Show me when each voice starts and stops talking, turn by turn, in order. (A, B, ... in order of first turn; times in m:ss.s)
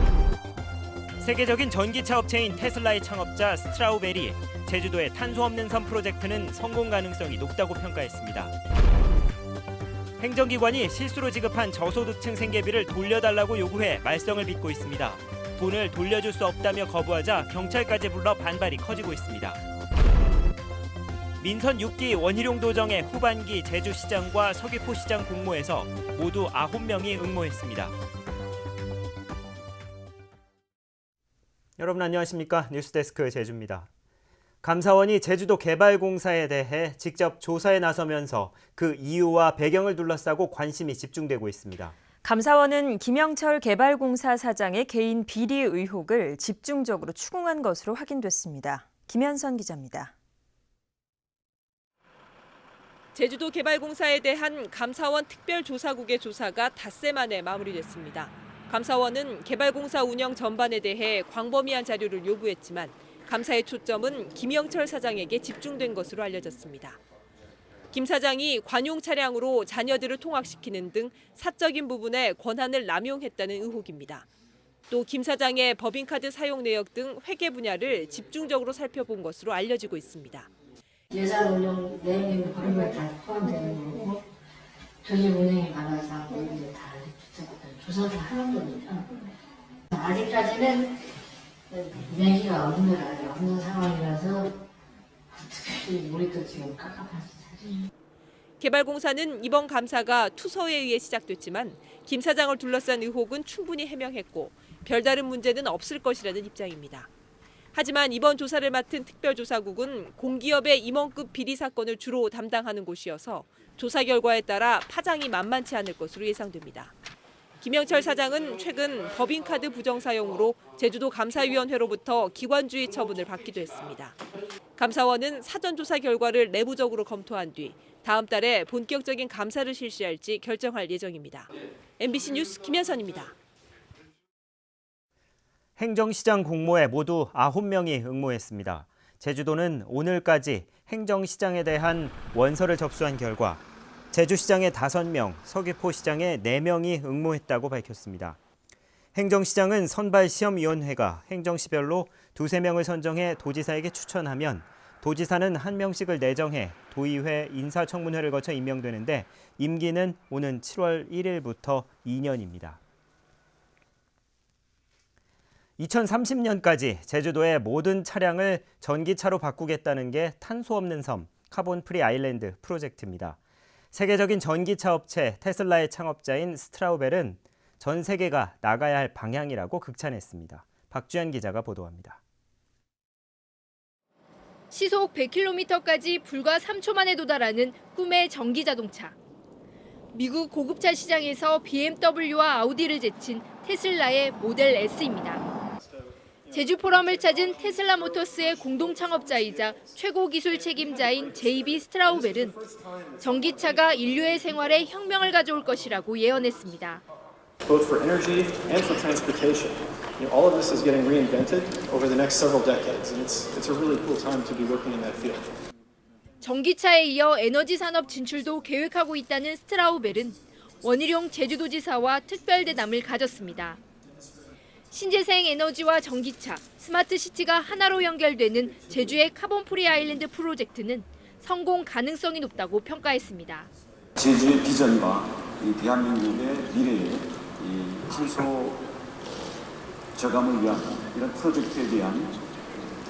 0:01.2-0:08.5 A
0:10.2-0:19.6 A
0:21.4-0:27.9 A
0:31.8-0:33.9 A
0:34.6-0:41.9 A
0:42.2-0:50.1 B
0:53.1-1:07.0 C
1:07.9-1:14.2 C
1:14.9-1:20.5 C
1:21.1-1:24.2 D
1:25.0-1:29.2 D
1:29.9-1:31.0 D
1:31.7-1:34.5 D
1:35.3-1:37.8 D
1:38.6-1:47.1 C
1:47.7-1:56.9 C
1:57.6-2:04.2 C
2:04.8-2:13.3 C
2:15.8-2:28.4 A
2:29.1-2:42.8 A
2:45.8-2:53.4 A
2:53.9-3:02.2 A
3:04.7-3:09.1 E
3:10.1-3:15.4 E
3:16.5-3:22.6 E
3:23.2-3:27.0 E
3:27.7-3:35.5 F
3:36.4-3:43.8 E
3:44.9-3:53.7 E
3:54.2-3:58.8 G
4:00.1-4:02.4 G